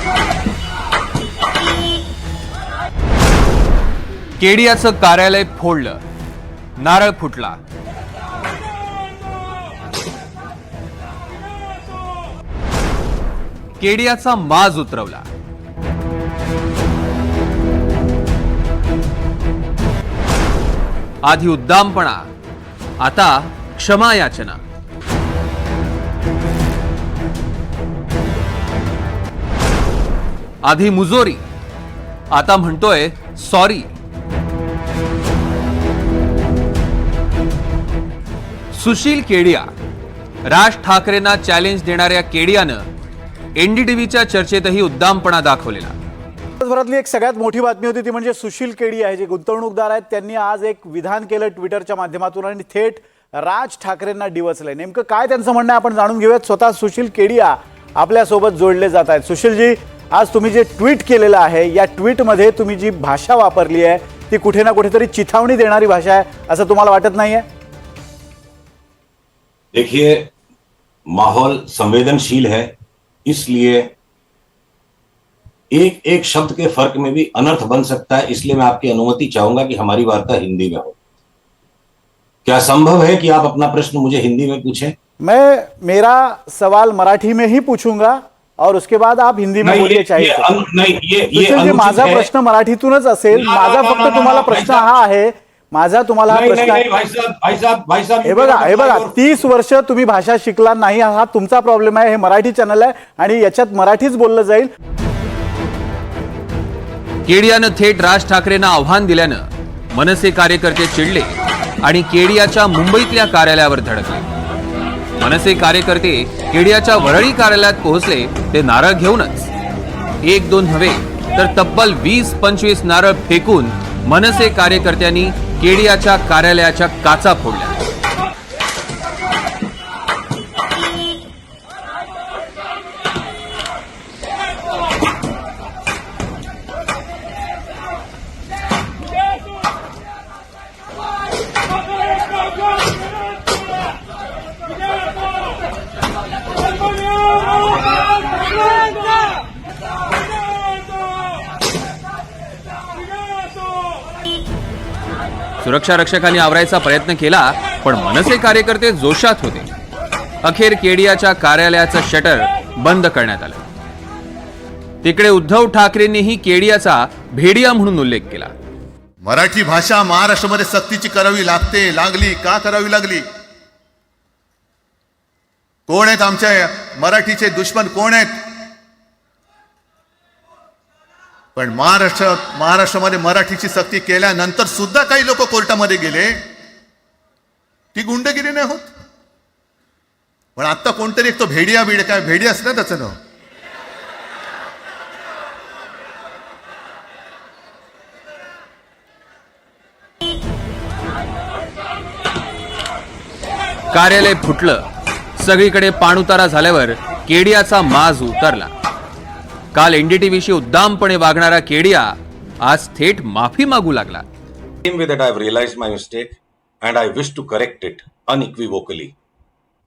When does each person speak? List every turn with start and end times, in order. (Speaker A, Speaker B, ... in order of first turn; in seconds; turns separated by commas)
Speaker A: 4.4-6.0, Speaker A: 6.8-7.6, Speaker A: 13.8-15.3, Speaker A: 21.2-22.3, Speaker A: 23.0-24.6, Speaker A: 30.6-31.4, Speaker A: 32.3-33.9, Speaker A: 38.7-39.7, Speaker A: 40.5-42.9, Speaker A: 43.6-46.0, Speaker B: 46.6-67.5, Speaker C: 69.7-70.3, Speaker C: 71.1-72.7, Speaker C: 73.2-73.9, Speaker C: 75.7-81.0, Speaker C: 82.5-85.0, Speaker B: 85.2-90.5, Speaker C: 89.6-92.3, Speaker B: 91.3-96.9, Speaker C: 93.3-95.0, Speaker C: 96.3-99.2, Speaker B: 98.2-104.7, Speaker A: 107.3-114.3, Speaker A: 115.2-119.5, Speaker A: 120.2-127.8, Speaker A: 155.6-159.7, Speaker A: 160.4-163.6, Speaker A: 165.0-168.5, Speaker D: 169.2-173.2, Speaker D: 175.9-178.3, Speaker D: 181.6-186.4, Speaker D: 187.9-188.8, Speaker D: 190.6-193.1, Speaker A: 203.9-204.8, Speaker A: 205.4-208.7, Speaker A: 209.7-214.2, Speaker C: 214.9-219.2